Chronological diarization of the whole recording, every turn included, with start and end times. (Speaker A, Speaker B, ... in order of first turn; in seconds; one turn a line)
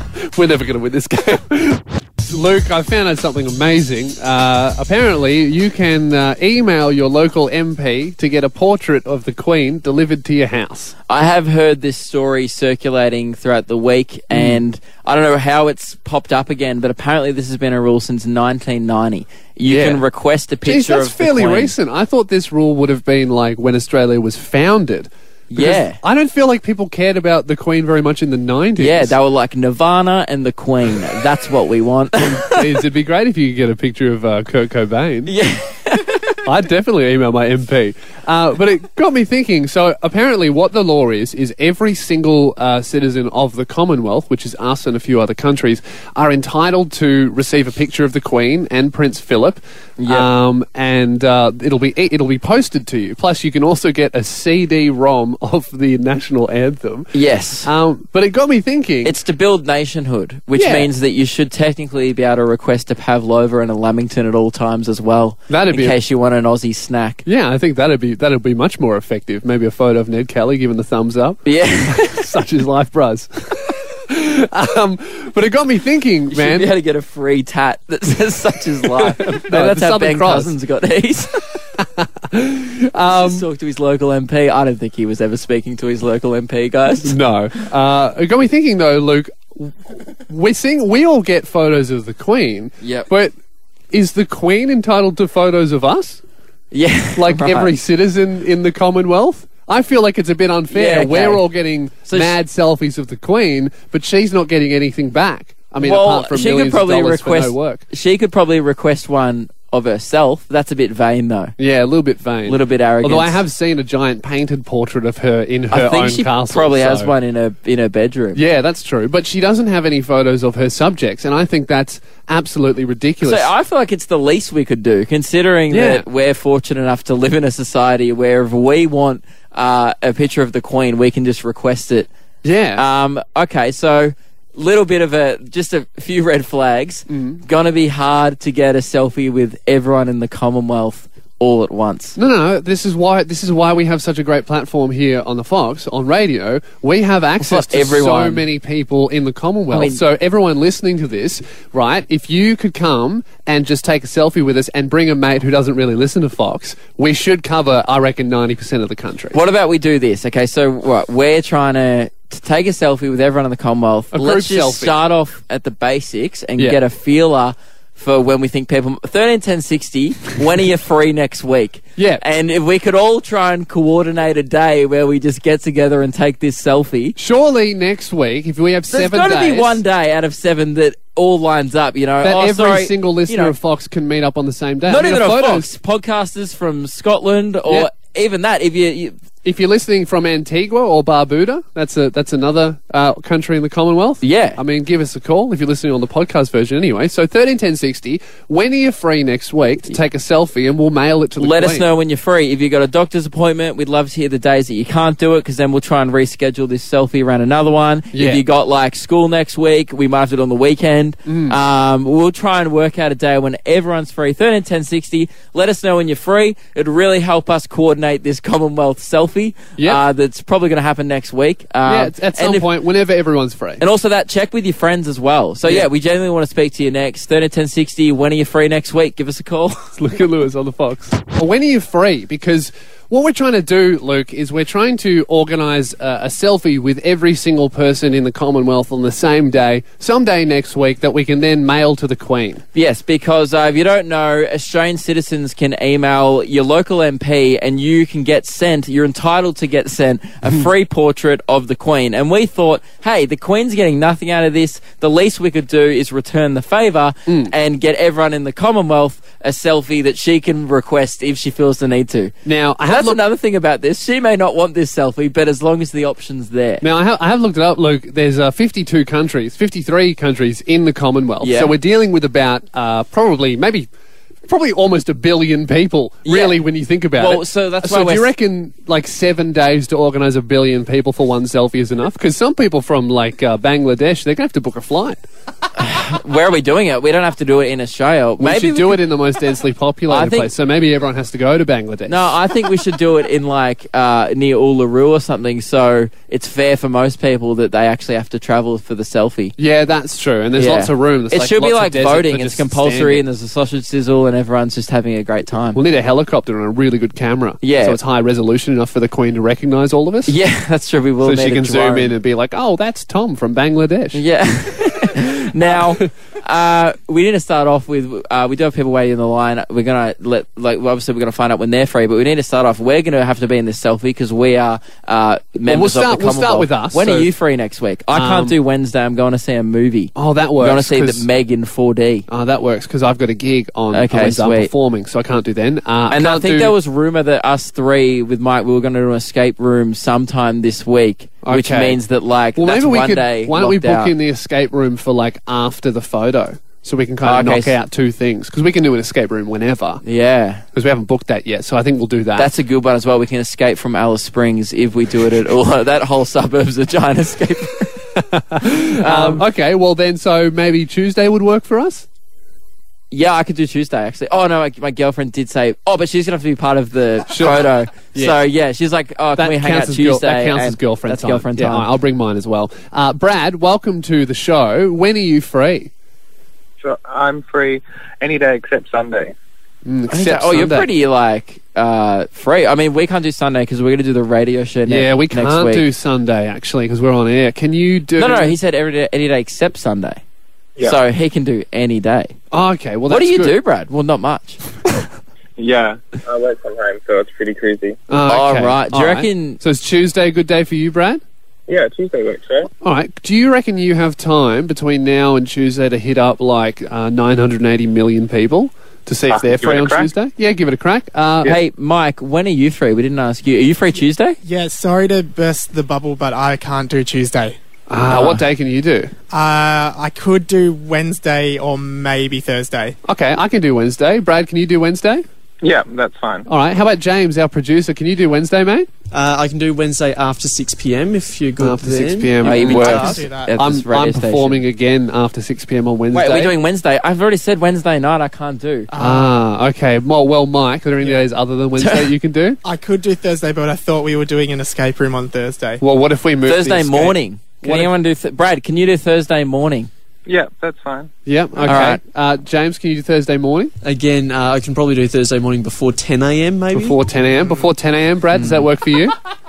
Speaker A: 0.2-10.9
Speaker B: 11.1-21.7
Speaker A: 14.3-14.6
Speaker A: 19.6-20.0
Speaker A: 20.6-29.1
Speaker B: 25.5-26.0
Speaker B: 28.8-32.7
Speaker A: 32.3-35.3
Speaker B: 35.2-36.4
Speaker A: 36.4-57.1
Speaker B: 50.0-50.3
Speaker B: 57.1-57.7
Speaker A: 57.6-59.1
Speaker B: 59.0-67.2
Speaker A: 60.5-60.9
Speaker A: 65.5-66.0
Speaker A: 67.2-76.7
Speaker B: 71.4-72.3
Speaker B: 76.3-81.6
Speaker A: 78.9-80.5
Speaker A: 81.8-83.5
Speaker B: 83.1-87.2
Speaker A: 87.0-93.3
Speaker B: 92.8-93.1
Speaker A: 93.9-96.2
Speaker B: 96.7-97.7
Speaker A: 97.2-107.8
Speaker B: 100.7-101.4
Speaker B: 102.0-102.4
Speaker B: 105.8-111.5
Speaker A: 111.6-117.1
Speaker B: 112.5-113.4
Speaker B: 115.7-118.4
Speaker A: 118.3-123.5
Speaker B: 123.2-132.1
Speaker A: 125.7-126.0
Speaker A: 132.4-132.8
Speaker B: 132.7-142.2
Speaker A: 137.1-137.4
Speaker A: 142.2-159.4
Speaker B: 147.4-148.4
Speaker B: 149.7-150.0
Speaker B: 159.3-177.2
Speaker A: 164.1-164.9
Speaker A: 172.0-172.2
Speaker A: 177.2-179.8
Speaker B: 178.9-183.5
Speaker A: 182.2-185.7
Speaker B: 184.8-189.1
Speaker A: 189.4-201.8
Speaker B: 194.2-194.6
Speaker B: 201.4-222.7
Speaker A: 208.1-208.4
Speaker A: 211.2-211.6
Speaker A: 219.8-220.0
Speaker A: 221.8-223.8
Speaker B: 223.8-229.9
Speaker A: 229.9-242.6
Speaker B: 242.7-266.8
Speaker A: 257.3-257.5
Speaker A: 262.4-263.2
Speaker A: 266.8-273.9
Speaker B: 271.4-271.7
Speaker A: 274.4-285.2
Speaker B: 276.2-276.6
Speaker B: 277.1-278.3
Speaker B: 285.8-289.0
Speaker A: 288.4-292.3
Speaker B: 290.1-290.5
Speaker B: 292.1-299.5
Speaker A: 299.6-303.2
Speaker B: 300.6-305.8
Speaker A: 305.7-310.4
Speaker B: 307.6-308.0
Speaker B: 310.3-312.1
Speaker A: 311.2-314.2
Speaker B: 314.1-332.3
Speaker A: 315.7-316.1
Speaker A: 325.6-327.3
Speaker A: 328.1-328.6
Speaker A: 330.1-331.2
Speaker A: 332.3-336.7
Speaker B: 333.9-334.7
Speaker B: 336.1-344.1
Speaker A: 341.4-342.0
Speaker A: 342.6-350.0
Speaker B: 347.2-347.8
Speaker B: 350.0-350.6
Speaker A: 350.7-352.5
Speaker B: 352.4-358.1
Speaker A: 358.1-362.1
Speaker B: 358.9-359.4
Speaker B: 363.1-371.9
Speaker A: 367.3-368.4
Speaker A: 369.4-375.9
Speaker C: 376.8-379.3
Speaker A: 379.8-380.9
Speaker B: 380.1-385.9
Speaker A: 384.9-388.6
Speaker B: 388.2-390.2
Speaker B: 390.8-392.3
Speaker A: 392.5-393.6
Speaker B: 393.1-394.6
Speaker C: 395.6-398.0
Speaker A: 398.1-401.2
Speaker B: 398.3-399.6
Speaker C: 401.7-402.7
Speaker A: 402.8-411.5
Speaker C: 409.3-410.1
Speaker B: 411.4-414.4
Speaker D: 414.4-417.6
Speaker A: 417.9-419.1
Speaker B: 418.1-418.4
Speaker D: 419.3-423.0
Speaker A: 423.0-425.2
Speaker C: 425.6-426.5
Speaker A: 426.5-428.9
Speaker E: 429.1-433.2
Speaker A: 431.6-436.5
Speaker B: 432.4-434.6
Speaker D: 432.5-433.5
Speaker B: 436.1-438.9
Speaker D: 438.9-439.4
Speaker A: 439.0-442.6
Speaker B: 441.8-442.1
Speaker D: 442.6-445.8
Speaker A: 445.8-447.9
Speaker B: 446.4-449.9
Speaker C: 450.3-451.1
Speaker A: 451.2-453.7
Speaker B: 451.6-452.0
Speaker E: 453.8-457.0
Speaker A: 456.7-459.1